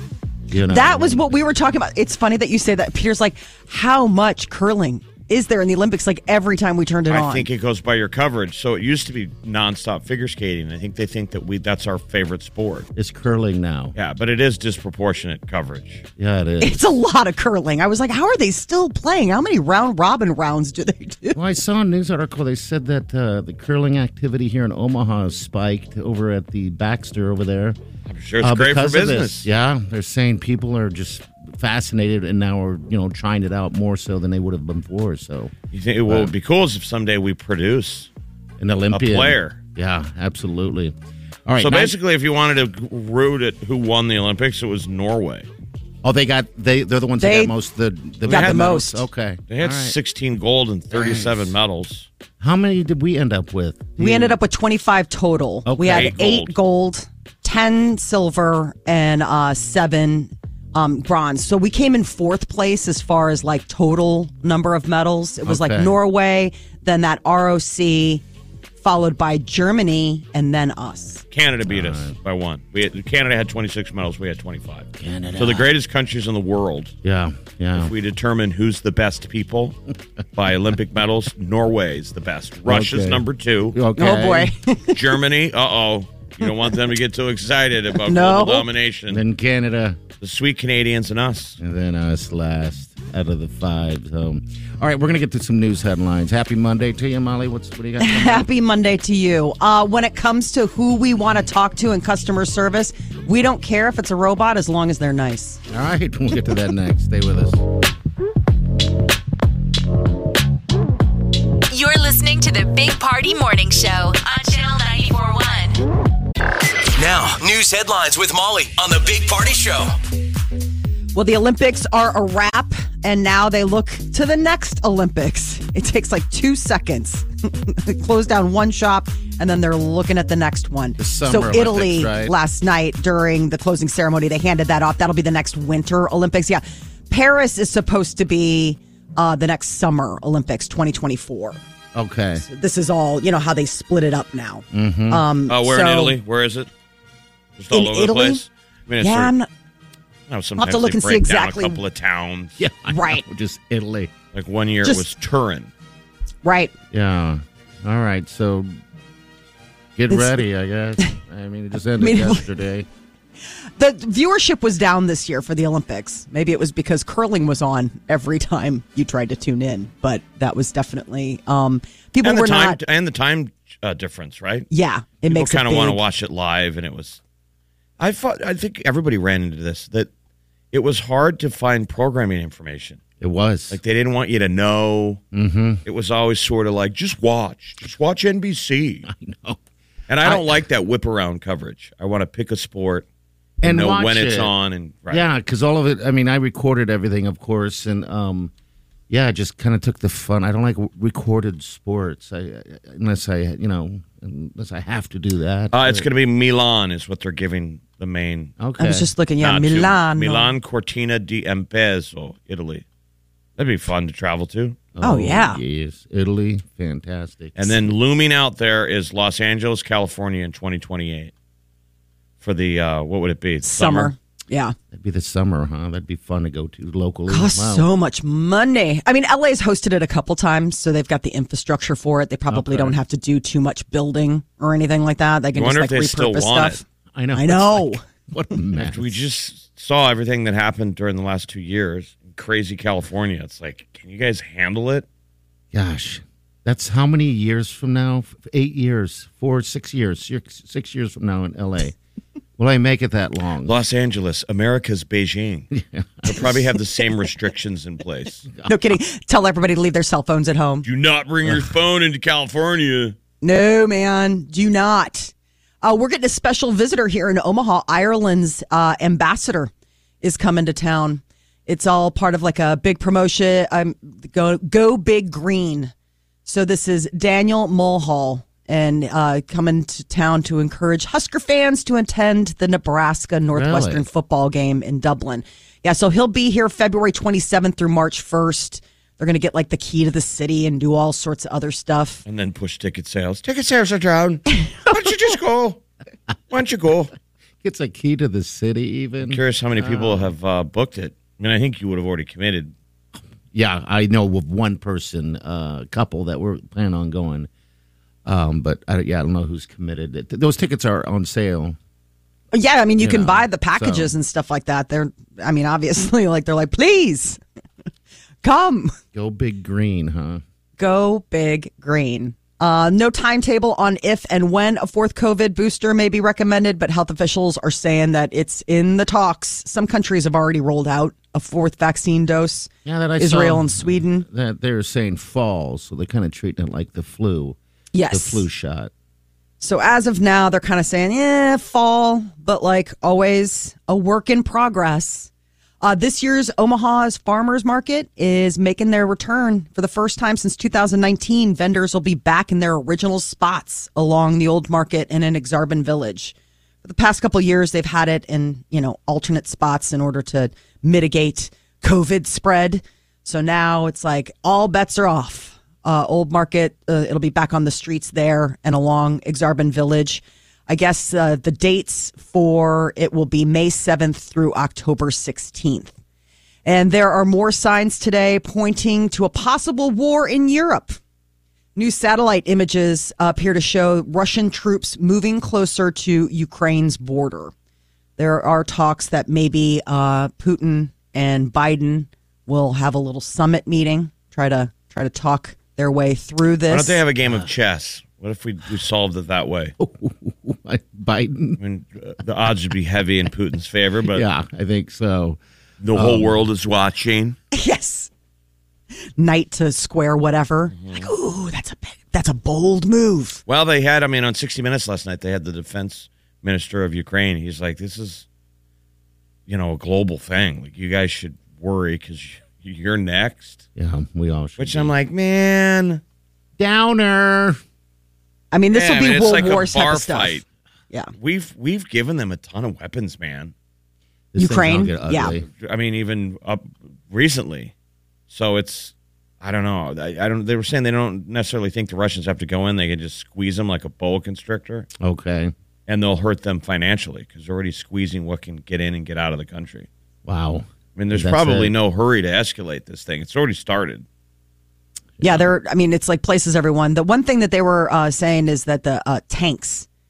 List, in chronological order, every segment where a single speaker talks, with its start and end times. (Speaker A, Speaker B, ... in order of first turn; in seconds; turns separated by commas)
Speaker A: 0.5-1.2, Speaker B: 0.7-7.5, Speaker C: 7.1-12.9, Speaker A: 13.0-14.0, Speaker C: 14.0-16.1, Speaker A: 16.2-16.8, Speaker B: 16.6-21.4, Speaker A: 21.3-27.8, Speaker C: 28.1-29.5, Speaker A: 28.4-35.5, Speaker C: 35.7-38.1, Speaker A: 38.6-41.0, Speaker C: 38.9-39.6, Speaker A: 41.5-41.9, Speaker C: 41.6-45.5, Speaker A: 46.0-50.0, Speaker B: 47.2-47.5, Speaker B: 48.2-49.0, Speaker C: 48.3-48.7, Speaker C: 49.5-52.1, Speaker A: 50.9-51.5, Speaker A: 52.4-54.4, Speaker B: 54.0-68.2, Speaker A: 55.6-56.2, Speaker C: 55.9-56.5, Speaker A: 65.4-66.0, Speaker B: 68.8-71.2, Speaker C: 71.3-77.0, Speaker A: 71.7-72.1, Speaker A: 75.0-75.7, Speaker A: 77.0-77.9, Speaker C: 77.8-79.8, Speaker C: 80.4-83.8, Speaker A: 82.7-84.5, Speaker B: 84.0-85.0, Speaker C: 84.9-89.2, Speaker B: 88.0-88.7, Speaker A: 89.1-90.0, Speaker C: 90.2-91.6, Speaker A: 91.6-98.5, Speaker B: 98.0-105.6, Speaker A: 105.7-107.6, Speaker D: 111.7-115.8, Speaker E: 117.0-120.0, Speaker B: 121.1-141.6, Speaker A: 131.0-132.3, Speaker A: 141.9-142.4, Speaker B: 142.4-146.2, Speaker A: 144.7-145.2, Speaker C: 145.5-146.7, Speaker C: 147.6-149.3, Speaker B: 147.7-148.4, Speaker B: 149.0-149.5, Speaker C: 150.3-152.5, Speaker B: 150.6-151.8, Speaker A: 152.6-154.1, Speaker B: 152.9-153.2, Speaker C: 154.3-155.7, Speaker B: 156.4-156.7, Speaker A: 156.9-158.8, Speaker A: 160.0-162.9, Speaker B: 160.1-160.4, Speaker B: 162.0-162.4, Speaker B: 163.8-172.8, Speaker C: 172.2-174.7, Speaker B: 174.7-176.0, Speaker C: 175.3-177.2, Speaker C: 178.0-180.1, Speaker C: 180.7-183.0, Speaker A: 183.2-183.8, Speaker C: 183.7-185.2, Speaker A: 185.3-185.8, Speaker C: 185.8-189.1, Speaker A: 189.1-189.6, Speaker C: 190.1-193.1, Speaker A: 190.2-190.6, Speaker A: 193.6-194.5, Speaker C: 193.6-195.3, Speaker A: 195.1-198.5, Speaker A: 199.1-206.1, Speaker C: 205.7-208.5, Speaker A: 208.6-209.1, Speaker B: 208.8-210.5, Speaker C: 209.4-212.8, Speaker C: 213.6-214.8, Speaker A: 214.9-217.8, Speaker B: 215.0-215.6, Speaker C: 217.6-221.3, Speaker C: 222.4-224.1, Speaker B: 223.6-224.8, Speaker A: 224.9-227.9, Speaker B: 227.3-236.8, Speaker A: 232.5-233.0, Speaker C: 235.6-236.8, Speaker A: 237.2-239.1, Speaker B: 237.3-238.0, Speaker C: 238.8-245.1, Speaker A: 245.7-252.0, Speaker A: 252.6-253.7, Speaker C: 253.7-255.7, Speaker A: 255.7-256.7, Speaker C: 256.2-258.5, Speaker B: 258.6-260.9, Speaker C: 260.8-263.2, Speaker B: 263.4-269.7, Speaker B: 270.2-275.9, Speaker B: 276.5-292.2, Speaker A: 283.5-284.0, Speaker C: 292.3-295.8, Speaker C: 296.5-297.1, Speaker A: 297.6-300.3, Speaker C: 299.2-302.7, Speaker A: 303.5-307.5, Speaker A: 308.2-311.8, Speaker B: 312.5-317.4, Speaker A: 313.0-314.1, Speaker B: 318.4-319.0, Speaker A: 319.1-320.4, Speaker B: 320.8-334.2, Speaker A: 332.9-337.6, Speaker B: 337.9-338.5, Speaker A: 338.1-338.9, Speaker B: 339.6-345.3, Speaker B: 345.8-375.9, Speaker B: 376.6-381.0, Speaker B: 381.8-387.5, Speaker B: 388.2-397.0, Speaker C: 396.7-399.8, Speaker A: 399.8-401.6, Speaker C: 401.6-404.2, Speaker A: 404.1-405.4, Speaker C: 405.8-407.4, Speaker A: 405.9-406.4, Speaker B: 407.5-408.1, Speaker B: 409.2-413.4, Speaker C: 410.7-411.1, Speaker C: 413.5-418.3, Speaker C: 419.5-423.6, Speaker A: 423.8-424.9, Speaker C: 424.6-426.0, Speaker A: 426.6-427.6, Speaker B: 428.5-430.4, Speaker C: 428.7-430.4, Speaker C: 431.2-433.5, Speaker A: 434.3-435.5, Speaker B: 434.4-435.3, Speaker C: 435.5-437.7, Speaker C: 438.3-444.9, Speaker A: 445.0-445.5, Speaker C: 445.9-449.9, Speaker A: 450.2-451.7, Speaker C: 451.0-454.1, Speaker A: 455.2-455.5, Speaker B: 455.2-459.9